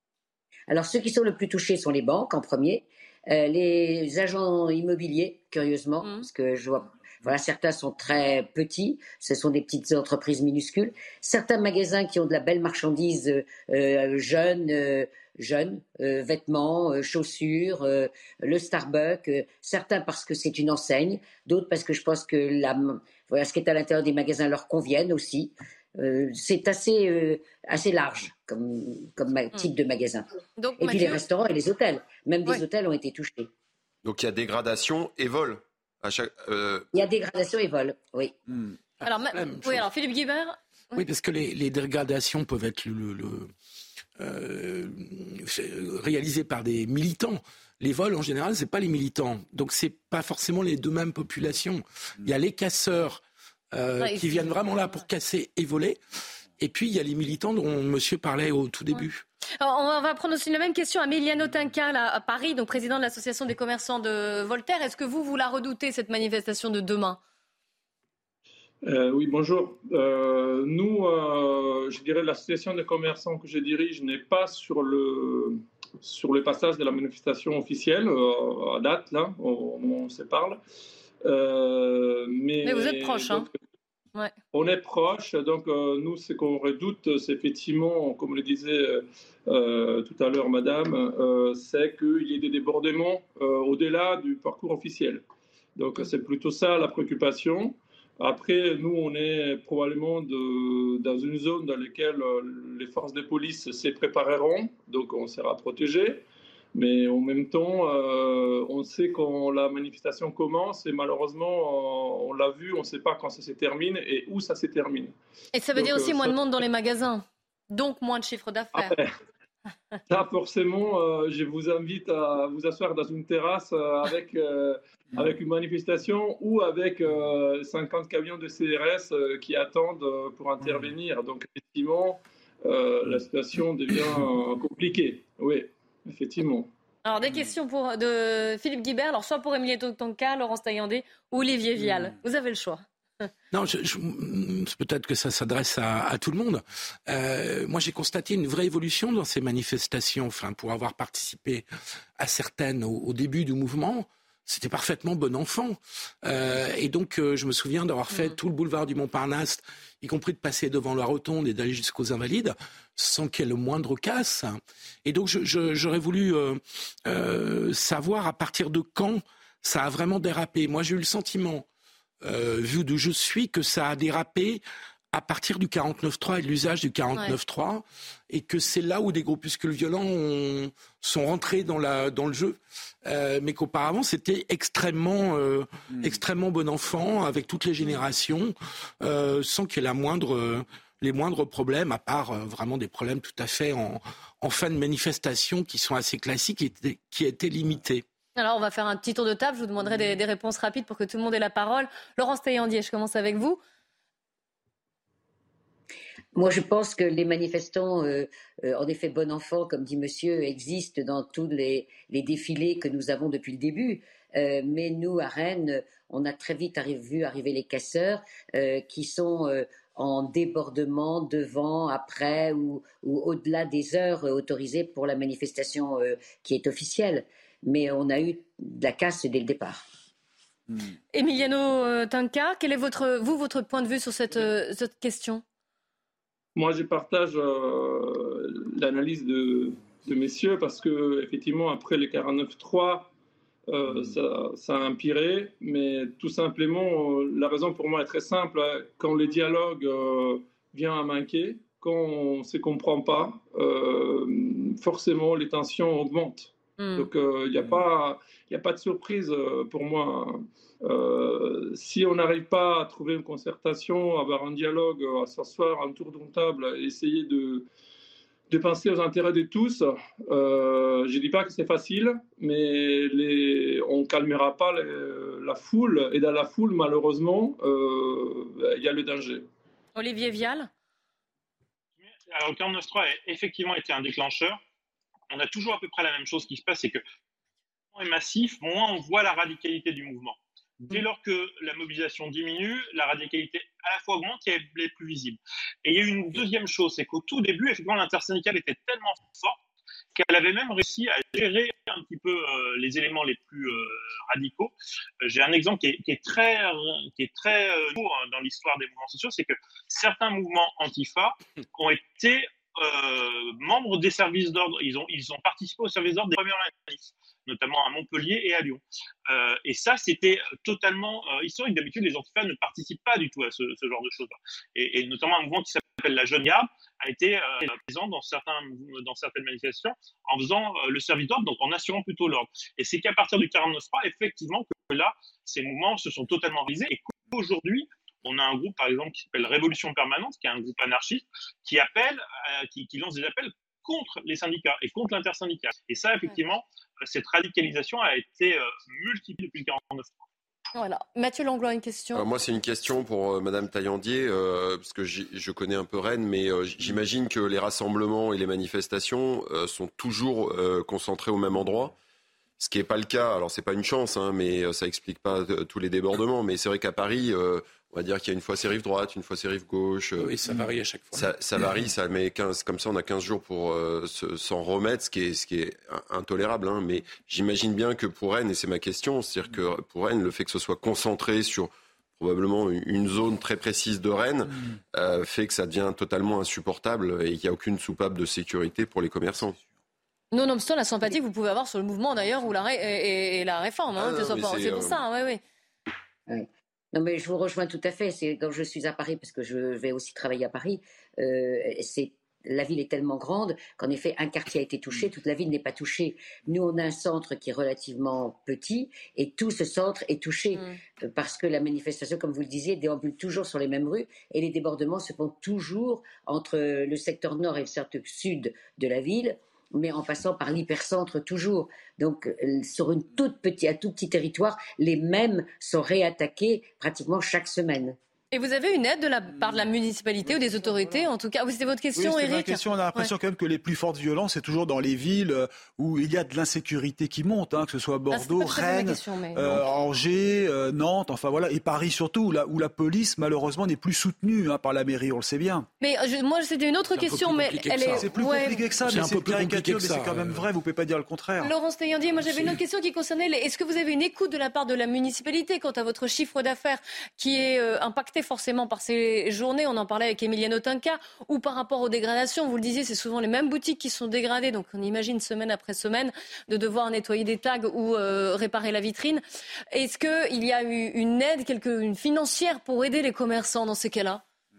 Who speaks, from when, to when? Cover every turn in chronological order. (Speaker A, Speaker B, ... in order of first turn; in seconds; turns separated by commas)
Speaker A: 0.7-30.3, Speaker B: 30.6-31.2, Speaker A: 30.8-33.5, Speaker C: 34.0-36.9, Speaker A: 36.9-38.4, Speaker D: 39.0-39.9, Speaker B: 39.0-41.0, Speaker D: 40.9-43.5, Speaker D: 44.2-53.2, Speaker D: 53.7-56.0, Speaker B: 54.0-55.0, Speaker D: 56.6-59.2, Speaker B: 59.6-67.2, Speaker E: 68.8-80.6, Speaker E: 81.2-83.5, Speaker B: 82.6-83.5, Speaker E: 84.5-95.2, Speaker E: 95.8-106.2, Speaker E: 106.7-115.1, Speaker B: 115.5-119.0, Speaker E: 115.7-116.4, Speaker E: 118.7-119.1, Speaker E: 120.1-136.7, Speaker B: 137.0-142.8, Speaker D: 143.5-151.7, Speaker D: 152.2-171.7, Speaker B: 158.1-158.4, Speaker D: 172.2-174.6, Speaker D: 175.1-198.0, Speaker B: 198.3-203.6, Speaker A: 206.3-229.8, Speaker B: 231.1-235.4, Speaker E: 236.5-243.1, Speaker E: 243.7-267.6, Speaker B: 256.8-257.1, Speaker E: 268.5-279.5, Speaker B: 279.9-280.7, Speaker F: 282.2-284.6, Speaker F: 285.3-287.0, Speaker F: 287.9-299.6, Speaker F: 300.1-350.1, Speaker B: 350.7-352.2, Speaker C: 352.1-361.9, Speaker C: 362.6-370.4, Speaker D: 370.2-371.3, Speaker C: 371.1-389.6, Speaker B: 390.3-395.4, Speaker C: 393.9-395.0, Speaker A: 396.3-428.0, Speaker B: 428.3-433.1, Speaker G: 431.9-445.7, Speaker B: 438.1-439.6, Speaker B: 445.8-448.6, Speaker D: 446.9-448.1, Speaker G: 448.0-451.5, Speaker D: 448.8-450.5, Speaker B: 451.4-474.2